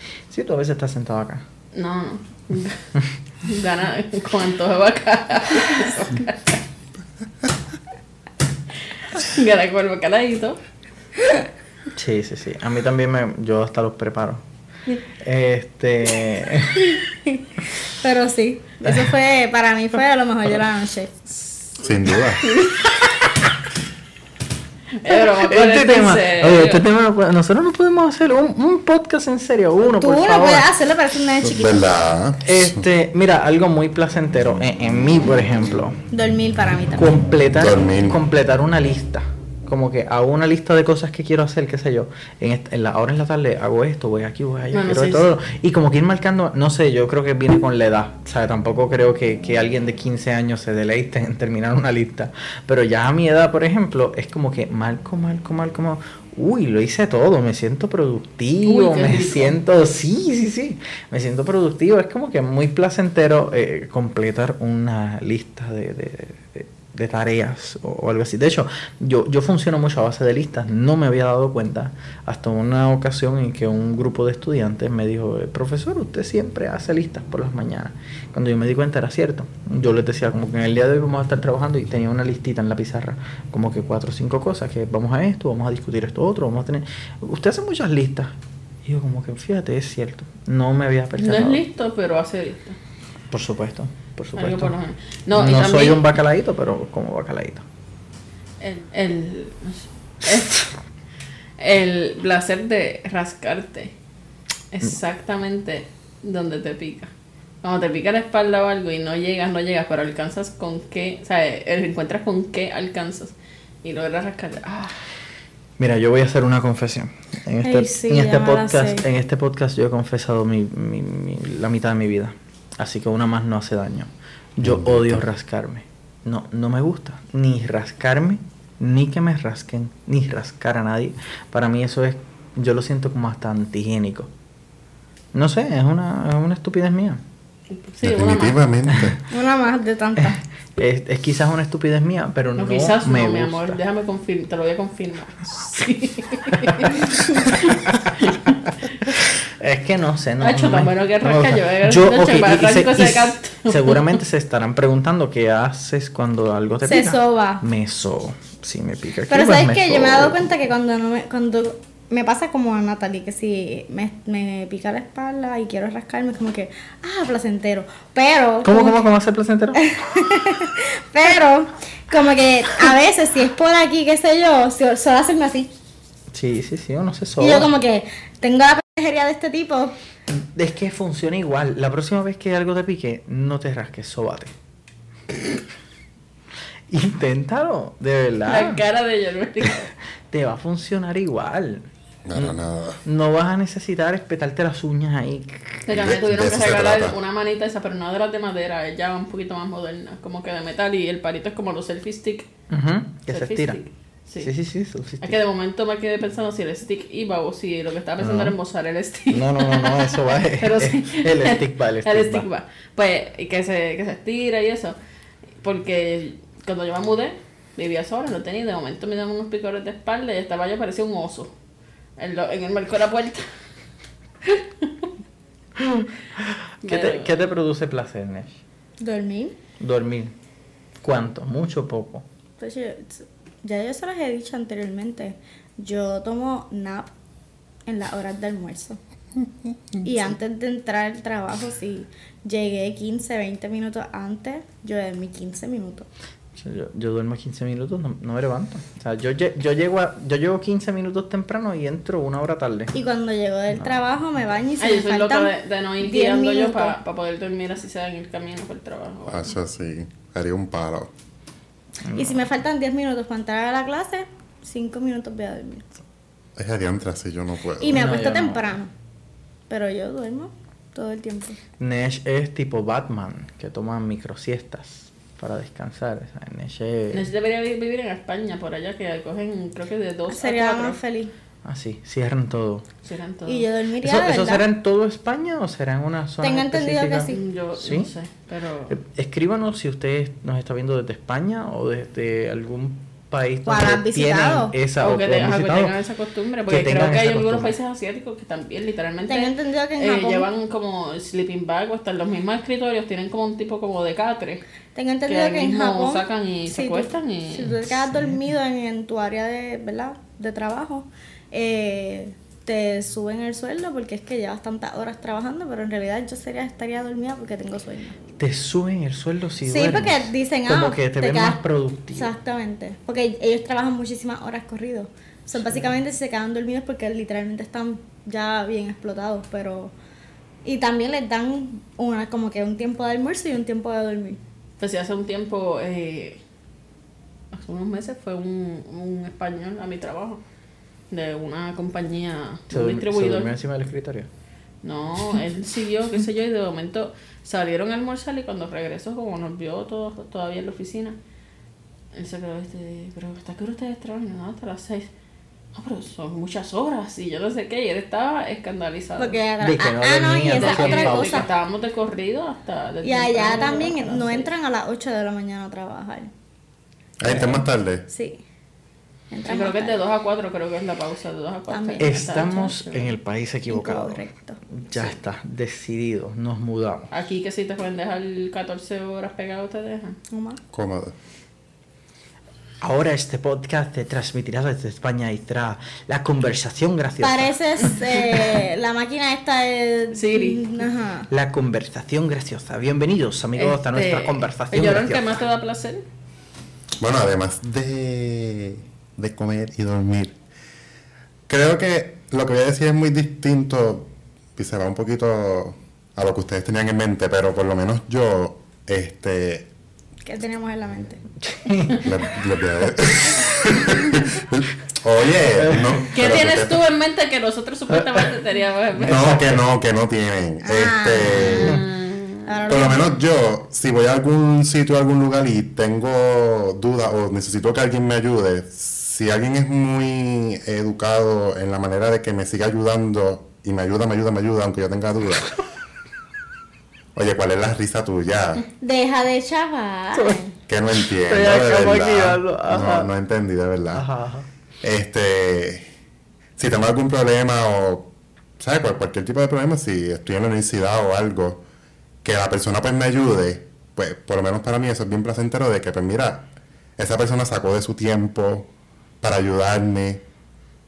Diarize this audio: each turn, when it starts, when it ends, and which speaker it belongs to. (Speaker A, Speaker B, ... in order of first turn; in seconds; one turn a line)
Speaker A: 0.3-1.4
Speaker B: 1.7-2.8
Speaker B: 3.4-6.6
Speaker B: 9.0-10.6
Speaker A: 11.9-14.4
Speaker A: 15.1-16.9
Speaker C: 16.8-21.1
Speaker B: 21.4-21.8
Speaker D: 21.8-22.4
Speaker B: 22.4-23.1
Speaker B: 25.0-26.9
Speaker A: 25.1-30.7
Speaker C: 29.9-31.9
Speaker D: 31.4-32.8
Speaker A: 32.4-36.0
Speaker C: 36.1-37.1
Speaker A: 37.0-91.6
Speaker D: 37.5-38.2
Speaker B: 44.7-45.3
Speaker B: 58.6-59.6
Speaker B: 91.2-92.8
Speaker A: 93.3-94.7
Speaker B: 94.3-96.1
Speaker A: 95.3-97.6
Speaker B: 98.6-100.7
Speaker B: 101.6-103.9
Speaker B: 104.7-107.1
Speaker B: 107.6-115.0
Speaker A: 115.8-134.3
Speaker C: 117.6-119.1
Speaker D: 124.6-125.2
Speaker A: 135.3-137.2
Speaker B: 137.7-138.6
Speaker D: 138.0-139.2
Speaker A: 138.9-139.2
Speaker C: 139.3-140.4
Speaker A: 140.2-143.8
Speaker B: 142.6-149.1
Speaker A: 149.1-160.4
Speaker B: 150.4-154.2
Speaker C: 156.8-157.6
Speaker C: 159.3-169.1
Speaker A: 168.6-169.8
Speaker C: 169.7-175.7
Speaker A: 176.3-177.7
Speaker C: 177.4-179.9
Speaker A: 180.3-184.5
Speaker A: 186.9-188.8
Speaker B: 188.5-189.9
Speaker A: 190.3-195.9
Speaker D: 192.2-193.0
Speaker B: 195.8-202.5
Speaker D: 195.9-197.2
Speaker A: 202.7-203.8
Speaker B: 203.3-204.5
Speaker A: 204.4-205.4
Speaker B: 205.2-214.9
Speaker A: 209.3-212.5
Speaker B: 215.6-221.5
Speaker B: 222.2-223.4
Speaker B: 224.4-225.1
Speaker A: 225.8-228.6
Speaker B: 226.8-227.5
Speaker C: 229.0-229.6
Speaker A: 229.8-230.3
Speaker A: 231.0-232.2
Speaker C: 232.6-237.1
Speaker C: 237.9-239.0
Speaker C: 240.0-246.1
Speaker A: 246.6-252.9
Speaker C: 252.9-256.9
Speaker B: 254.8-259.5
Speaker D: 259.3-261.1
Speaker A: 262.0-262.4
Speaker C: 262.1-265.8
Speaker D: 266.6-268.0
Speaker C: 267.8-268.9
Speaker A: 267.9-268.8
Speaker C: 269.7-271.6
Speaker A: 271.8-277.3
Speaker B: 277.1-281.0
Speaker C: 280.3-281.3
Speaker A: 281.6-282.9
Speaker B: 283.0-283.7
Speaker C: 283.4-284.7
Speaker A: 284.0-288.1
Speaker C: 286.4-287.4
Speaker B: 287.3-289.0
Speaker A: 288.9-295.9
Speaker C: 293.6-294.8
Speaker B: 294.9-304.6
Speaker A: 296.7-297.7
Speaker C: 299.3-300.5
Speaker C: 304.9-318.1
Speaker B: 305.3-307.7
Speaker A: 307.8-308.4
Speaker A: 318.4-322.3
Speaker C: 319.6-321.6
Speaker C: 322.1-329.9
Speaker C: 330.6-334.4
Speaker B: 334.8-336.4
Speaker B: 337.5-340.4
Speaker B: 341.1-343.5
Speaker A: 342.7-344.3
Speaker B: 344.8-351.2
Speaker B: 352.1-355.1
Speaker B: 355.7-359.4
Speaker C: 359.2-361.4
Speaker A: 359.6-361.5
Speaker B: 360.5-364.5
Speaker C: 363.0-366.3
Speaker D: 367.2-368.1
Speaker A: 367.3-367.5
Speaker C: 368.1-368.4
Speaker C: 369.3-370.0
Speaker B: 369.4-373.2
Speaker C: 371.7-372.2
Speaker A: 372.0-377.1
Speaker C: 373.7-374.6
Speaker B: 377.1-380.2
Speaker C: 380.3-380.6
Speaker D: 380.7-381.1
Speaker A: 382.8-387.6
Speaker C: 387.2-391.3
Speaker B: 387.9-388.2
Speaker B: 390.1-390.8
Speaker A: 391.3-395.4
Speaker B: 393.5-396.1
Speaker D: 397.0-400.3
Speaker D: 401.5-409.7
Speaker C: 410.2-411.2
Speaker A: 411.4-412.2
Speaker D: 412.0-416.9
Speaker A: 415.5-416.2
Speaker B: 416.1-419.4
Speaker A: 417.9-418.3
Speaker A: 418.9-419.6
Speaker D: 419.0-421.8
Speaker C: 420.6-421.8
Speaker B: 421.3-422.9
Speaker C: 422.4-423.1
Speaker D: 422.7-435.5
Speaker D: 437.1-438.6
Speaker C: 438.8-440.6
Speaker A: 440.1-440.4
Speaker D: 440.6-444.0
Speaker A: 441.0-443.1
Speaker A: 443.9-444.5
Speaker D: 444.8-445.9
Speaker D: 446.6-451.6
Speaker D: 452.2-458.7
Speaker D: 459.2-460.2